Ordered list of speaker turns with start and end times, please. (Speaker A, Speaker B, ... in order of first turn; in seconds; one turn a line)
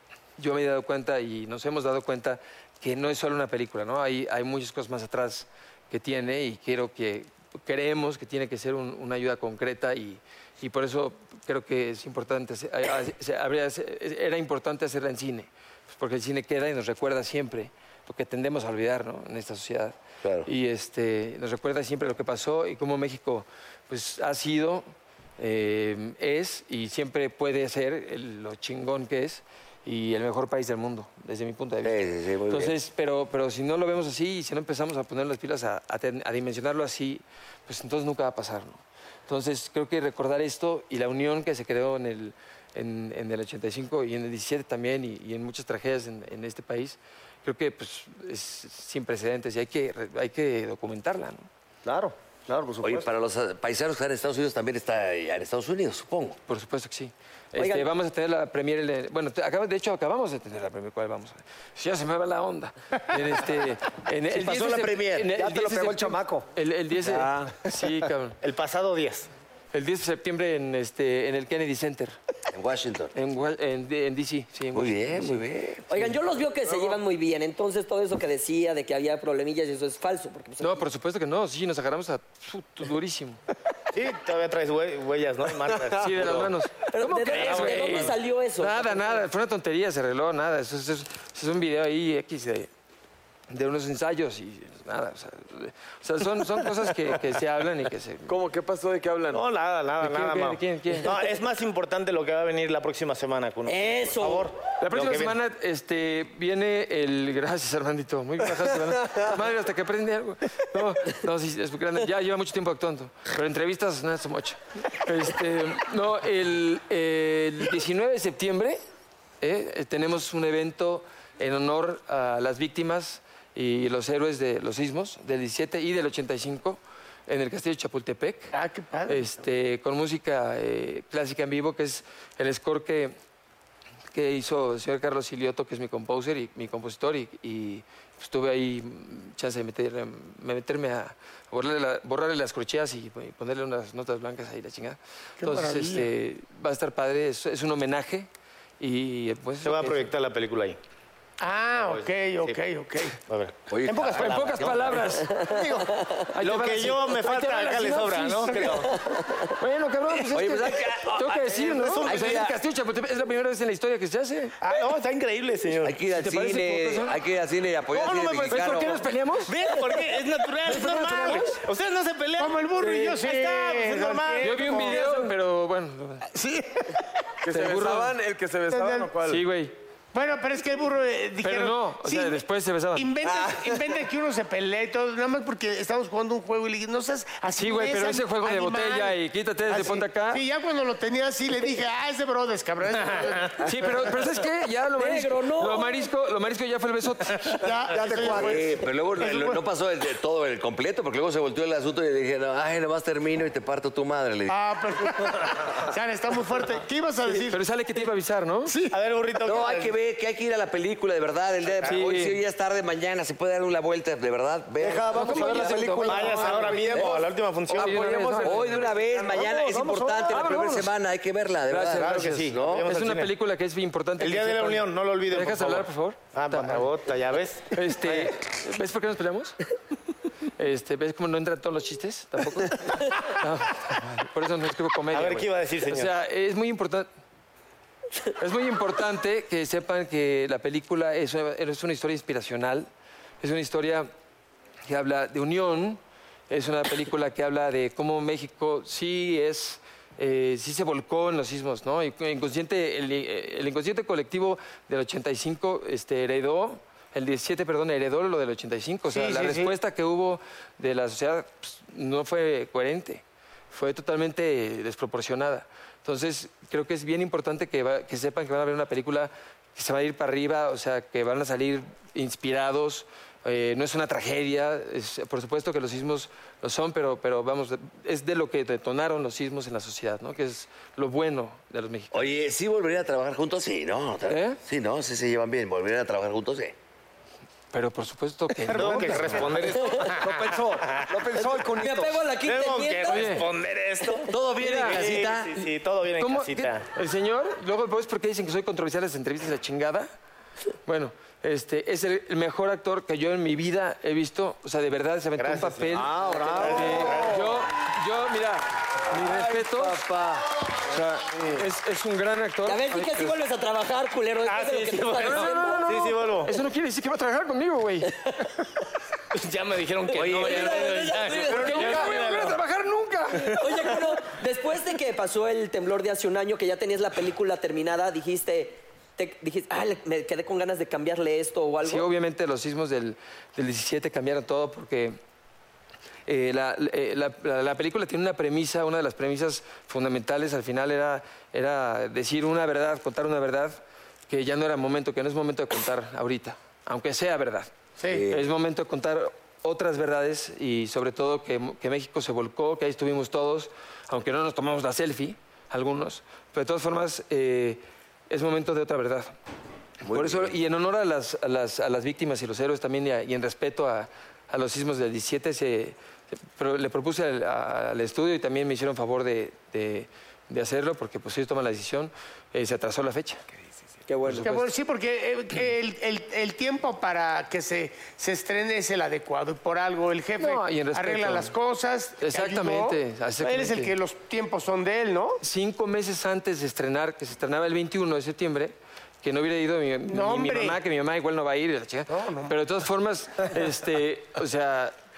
Speaker A: 0.4-24.9
Speaker B: 20.2-20.5
Speaker A: 25.4-32.0
Speaker B: 31.8-32.8
Speaker A: 32.5-51.5
Speaker C: 51.8-53.1
Speaker B: 52.8-56.4
Speaker A: 56.5-68.4
Speaker D: 57.5-57.9
Speaker C: 64.3-66.5
Speaker C: 67.0-67.5
Speaker E: 68.4-69.3
Speaker A: 69.7-72.2
Speaker B: 72.5-73.1
Speaker A: 73.1-75.5
Speaker B: 74.7-76.1
Speaker D: 75.9-80.8
Speaker A: 80.6-83.4
Speaker E: 83.9-86.5
Speaker A: 86.0-92.7
Speaker D: 86.9-89.2
Speaker E: 87.3-88.1
Speaker A: 93.5-98.4
Speaker F: 98.3-99.4
Speaker E: 99.3-105.4
Speaker A: 100.0-101.1
Speaker D: 103.7-104.5
Speaker A: 104.8-118.8
Speaker A: 119.4-128.5
Speaker G: 128.5-129.3
Speaker A: 129.1-133.1
Speaker A: 134.1-148.3
Speaker G: 145.4-146.1
Speaker A: 148.8-150.1
Speaker E: 149.6-150.8
Speaker G: 151.4-153.2
Speaker E: 151.8-152.6
Speaker E: 153.3-154.8
Speaker B: 153.7-155.0
Speaker A: 153.9-155.4
Speaker D: 155.3-156.3
Speaker C: 155.5-155.8
Speaker A: 156.3-158.7
Speaker E: 156.4-158.9
Speaker D: 158.9-159.5
Speaker A: 159.6-164.5
Speaker B: 160.3-162.6
Speaker E: 161.5-162.5
Speaker G: 164.6-164.9
Speaker E: 164.6-166.0
Speaker B: 165.8-169.0
Speaker A: 166.1-167.2
Speaker E: 167.9-168.8
Speaker A: 168.5-169.6
Speaker E: 169.4-175.2
Speaker A: 170.7-171.6
Speaker G: 172.4-175.3
Speaker A: 174.4-176.2
Speaker G: 176.3-177.0
Speaker F: 177.4-179.4
Speaker A: 177.5-178.1
Speaker G: 178.7-179.1
Speaker A: 179.2-179.7
Speaker G: 180.1-182.4
Speaker A: 181.4-183.1
Speaker G: 182.9-193.6
Speaker A: 187.6-190.4
Speaker A: 193.6-197.5
Speaker D: 194.9-196.1
Speaker G: 197.5-199.6
Speaker C: 197.9-198.7
Speaker B: 198.2-204.6
Speaker G: 204.5-207.6
Speaker A: 207.5-208.7
Speaker E: 208.9-209.9
Speaker B: 209.4-216.1
Speaker A: 211.8-212.4
Speaker C: 214.8-215.1
Speaker A: 215.1-216.7
Speaker F: 215.3-217.3
Speaker E: 216.1-218.1
Speaker C: 216.2-216.8
Speaker A: 217.7-218.7
Speaker F: 217.8-218.8
Speaker B: 218.4-222.9
Speaker C: 219.1-220.3
Speaker A: 220.3-220.9
Speaker A: 221.7-226.9
Speaker E: 221.9-223.3
Speaker E: 224.2-228.3
Speaker A: 227.7-229.6
Speaker A: 230.6-237.1
Speaker E: 235.1-236.1
Speaker A: 238.4-242.9
Speaker A: 243.4-244.1
Speaker A: 244.9-282.3
Speaker G: 259.1-259.7
Speaker B: 282.1-286.7
Speaker A: 284.3-284.6
Speaker A: 287.7-289.5
Speaker G: 288.7-289.5
Speaker E: 288.7-291.1
Speaker D: 289.7-290.1
Speaker C: 290.1-292.2
Speaker D: 291.6-293.4
Speaker E: 292.4-296.9
Speaker A: 293.1-293.4
Speaker B: 294.3-295.5
Speaker A: 294.6-295.1
Speaker A: 296.2-300.1
Speaker A: 300.9-310.1
Speaker E: 305.4-307.5
Speaker C: 306.2-306.8
Speaker B: 306.2-306.9
Speaker B: 309.3-310.4
Speaker A: 310.9-313.4
Speaker D: 312.6-315.9
Speaker E: 314.4-316.5
Speaker A: 315.2-318.1
Speaker E: 319.3-322.6
Speaker D: 320.1-322.2
Speaker B: 320.1-320.6
Speaker A: 320.6-323.9
Speaker D: 323.6-332.1
Speaker A: 331.8-335.2
Speaker A: 336.3-347.7
Speaker G: 348.0-348.3
Speaker B: 348.1-348.4
Speaker A: 348.3-359.3
Speaker A: 360.0-365.9
Speaker B: 360.0-360.5
Speaker A: 366.5-373.4
Speaker D: 374.1-374.6
Speaker A: 374.2-374.6
Speaker G: 374.4-385.4
Speaker A: 380.4-381.5
Speaker A: 382.2-383.9
Speaker A: 385.4-394.9
Speaker G: 390.1-390.8
Speaker G: 392.1-392.5